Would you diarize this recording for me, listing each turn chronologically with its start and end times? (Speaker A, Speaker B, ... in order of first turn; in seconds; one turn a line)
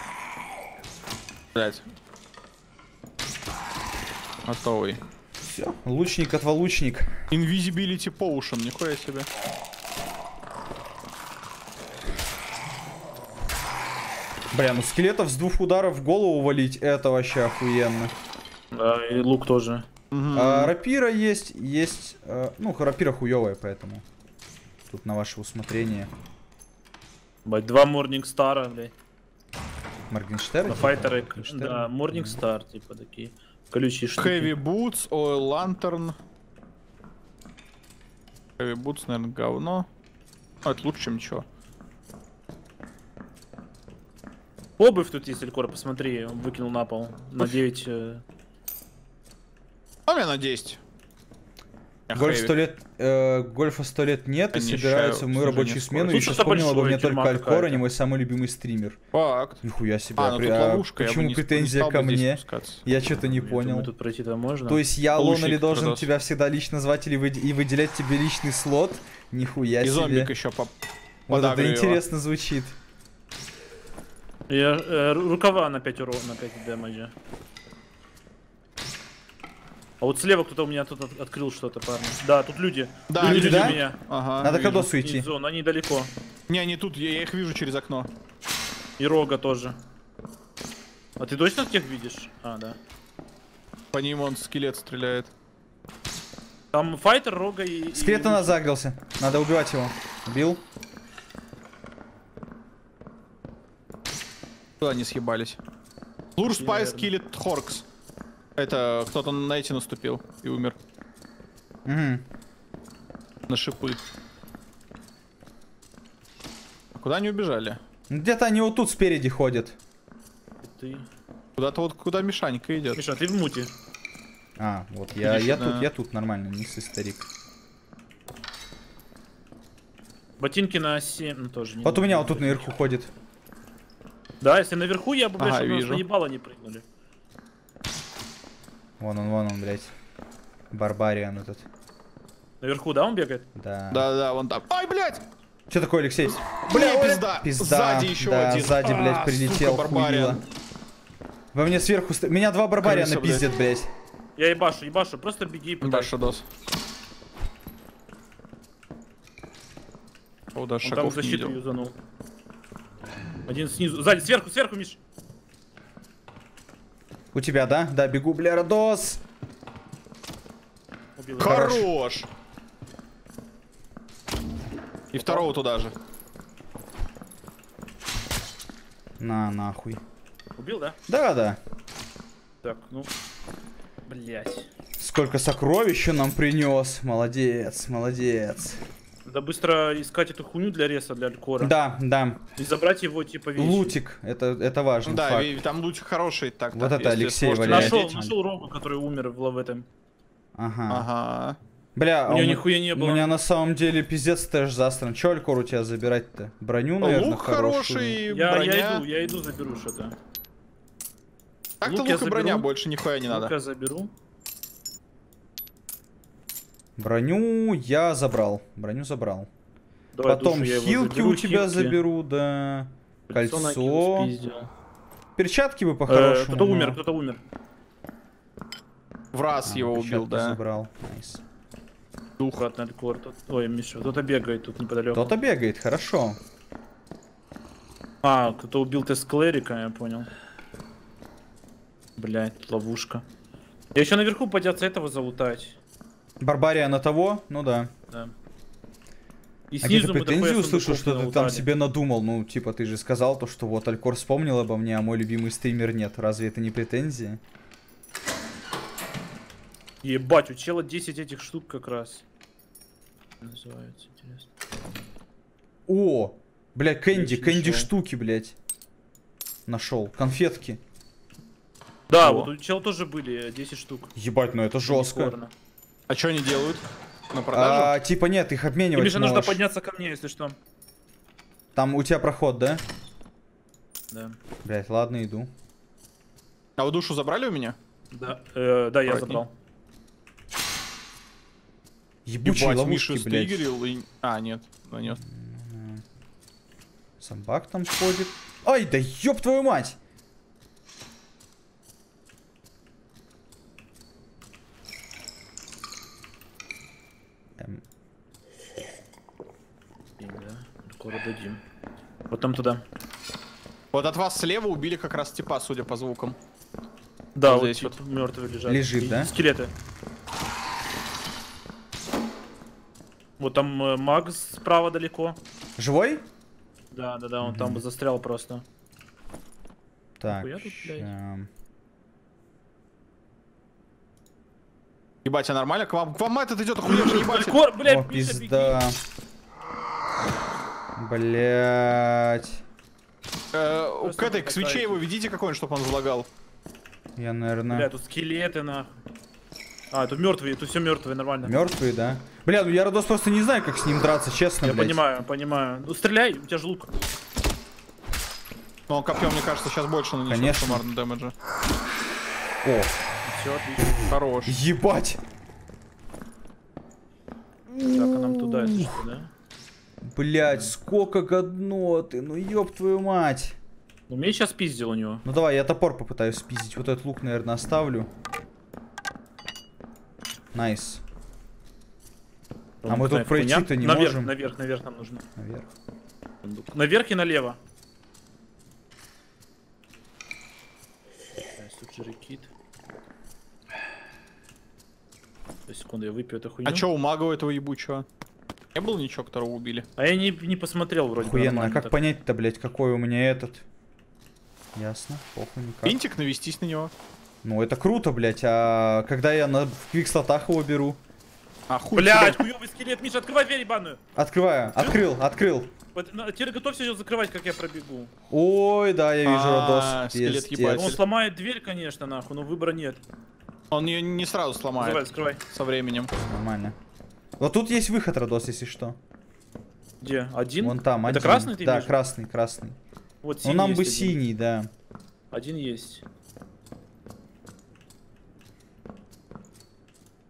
Speaker A: 1.6-1.8
Speaker A: 4.5-5.0
Speaker B: 5.4-7.2
Speaker A: 7.3-9.3
Speaker B: 14.5-18.1
Speaker C: 18.7-19.9
Speaker A: 20.1-20.7
Speaker B: 20.3-24.0
Speaker B: 24.9-26.1
Speaker C: 27.4-28.9
Speaker B: 30.1-32.4
Speaker C: 30.7-34.5
Speaker A: 34.2-36.1
Speaker A: 38.6-39.9
Speaker A: 40.6-41.5
Speaker C: 44.8-48.2
Speaker A: 50.1-50.8
Speaker A: 52.1-52.6
Speaker B: 52.1-59.0
Speaker A: 54.5-56.4
Speaker C: 56.1-57.8
Speaker A: 59.1-59.6
Speaker B: 59.6-63.9
Speaker A: 60.2-62.8
Speaker C: 63.2-64.8
Speaker B: 64.7-70.3
Speaker A: 65.1-66.1
Speaker A: 69.8-70.7
Speaker A: 71.3-72.0
Speaker B: 71.3-72.8
Speaker C: 74.5-77.1
Speaker C: 80.0-84.0
Speaker A: 83.1-84.9
Speaker B: 83.2-83.8
Speaker B: 84.4-85.3
Speaker C: 84.8-86.1
Speaker A: 86.5-88.1
Speaker C: 89.0-89.8
Speaker C: 91.2-92.8
Speaker A: 93.9-95.3
Speaker C: 96.7-98.6
Speaker B: 97.9-100.6
Speaker A: 104.8-105.6
Speaker A: 106.4-107.8
Speaker C: 106.5-107.1
Speaker A: 108.6-110.8
Speaker B: 111.9-112.2
Speaker A: 113.5-114.0
Speaker A: 117.0-117.8
Speaker B: 118.1-119.8
Speaker C: 120.6-121.1
Speaker A: 121.6-123.0
Speaker C: 123.0-123.7
Speaker B: 124.6-127.3
Speaker A: 125.2-125.9
Speaker C: 130.4-132.8
Speaker B: 131.8-133.1
Speaker C: 134.4-136.8
Speaker A: 135.4-136.0
Speaker B: 139.0-139.9
Speaker B: 140.7-141.7
Speaker C: 142.6-143.5
Speaker B: 143.6-144.1
Speaker A: 143.9-145.2
Speaker B: 145.7-150.4
Speaker A: 146.6-150.4
Speaker B: 151.5-153.9
Speaker A: 152.8-153.5
Speaker C: 154.4-156.3
Speaker A: 155.8-156.4
Speaker A: 160.6-161.6
Speaker C: 160.8-161.9
Speaker C: 163.5-165.0
Speaker B: 167.3-169.2
Speaker C: 171.2-171.8
Speaker A: 171.4-172.3
Speaker B: 171.4-171.9
Speaker A: 175.1-175.9
Speaker C: 175.2-175.5
Speaker B: 179.2-180.0
Speaker C: 180.6-181.0
Speaker B: 181.1-181.6
Speaker C: 182.6-183.1
Speaker C: 184.1-184.7
Speaker B: 185.0-188.8
Speaker C: 189.3-191.7
Speaker B: 191.6-192.4
Speaker C: 192.6-194.0
Speaker B: 193.6-195.5
Speaker A: 195.1-198.0
Speaker B: 196.7-198.3
Speaker C: 197.7-199.9
Speaker B: 200.6-201.1
Speaker A: 200.9-201.6
Speaker B: 202.0-208.2
Speaker C: 202.3-203.3
Speaker A: 207.0-209.1
Speaker C: 208.3-210.2
Speaker A: 211.8-213.5
Speaker C: 211.8-212.7
Speaker C: 213.3-214.1
Speaker B: 217.0-219.5
Speaker C: 220.1-222.0
Speaker B: 220.3-224.3
Speaker C: 223.3-224.7
Speaker B: 225.4-227.0
Speaker C: 226.1-227.4
Speaker A: 229.3-230.6
Speaker B: 229.7-231.4
Speaker C: 232.5-235.3
Speaker B: 235.1-236.4
Speaker C: 238.2-240.3
Speaker C: 242.2-243.2
Speaker C: 243.9-245.8
Speaker B: 246.4-247.9
Speaker C: 249.7-251.7
Speaker B: 249.8-257.4
Speaker C: 260.0-262.2
Speaker C: 263.4-264.5
Speaker B: 265.9-268.6
Speaker C: 267.1-267.9
Speaker B: 269.7-270.8
Speaker C: 272.1-274.1
Speaker B: 272.2-272.5
Speaker B: 274.2-275.3
Speaker C: 274.9-275.5
Speaker A: 276.1-278.0
Speaker B: 277.5-279.6
Speaker C: 278.9-280.6
Speaker B: 281.8-282.8
Speaker C: 284.1-284.4
Speaker B: 284.6-285.5
Speaker A: 286.8-287.8
Speaker C: 288.1-289.5
Speaker A: 289.1-289.4
Speaker B: 292.3-293.6
Speaker A: 292.4-295.2
Speaker B: 295.2-296.0
Speaker B: 297.2-300.0
Speaker C: 310.2-311.6
Speaker C: 312.3-312.8
Speaker A: 313.9-316.4
Speaker C: 317.4-319.7
Speaker A: 317.4-318.0
Speaker B: 318.7-319.3
Speaker C: 323.4-325.4
Speaker B: 325.8-326.2
Speaker C: 326.9-328.6
Speaker B: 327.4-327.8
Speaker B: 330.2-331.5
Speaker C: 330.3-331.1
Speaker A: 335.2-337.6
Speaker C: 336.9-338.8
Speaker B: 337.8-339.0
Speaker B: 341.0-342.6
Speaker A: 343.5-346.3
Speaker C: 344.0-345.0
Speaker B: 347.2-347.9
Speaker C: 347.7-349.0
Speaker C: 349.9-351.6
Speaker B: 351.4-355.0
Speaker C: 354.6-356.9
Speaker A: 358.9-361.3
Speaker B: 360.3-360.8
Speaker B: 362.6-363.0
Speaker C: 363.2-364.0
Speaker A: 364.1-364.6
Speaker B: 364.5-365.2
Speaker C: 367.9-369.3
Speaker B: 368.6-368.9
Speaker B: 370.1-373.6
Speaker C: 370.5-370.7
Speaker C: 374.1-375.2
Speaker B: 375.2-378.1
Speaker B: 380.5-381.0
Speaker C: 382.8-385.3
Speaker B: 382.9-384.3
Speaker B: 385.4-385.7
Speaker C: 386.4-387.6
Speaker C: 391.6-392.5
Speaker C: 395.7-396.9
Speaker A: 396.7-398.1
Speaker A: 398.8-399.9
Speaker C: 400.0-402.0
Speaker B: 401.2-403.6
Speaker B: 404.8-406.0
Speaker A: 405.8-406.9
Speaker B: 407.4-411.0
Speaker A: 411.7-412.4
Speaker C: 411.9-414.0
Speaker B: 414.2-415.7
Speaker C: 415.9-418.1
Speaker B: 418.3-421.0
Speaker A: 419.3-421.0
Speaker C: 420.8-423.0
Speaker A: 423.7-426.1
Speaker C: 424.8-425.4
Speaker B: 426.2-426.8
Speaker B: 427.4-429.0
Speaker C: 430.0-432.0
Speaker B: 430.6-432.8
Speaker C: 433.2-434.2
Speaker B: 433.4-434.7
Speaker C: 435.3-436.0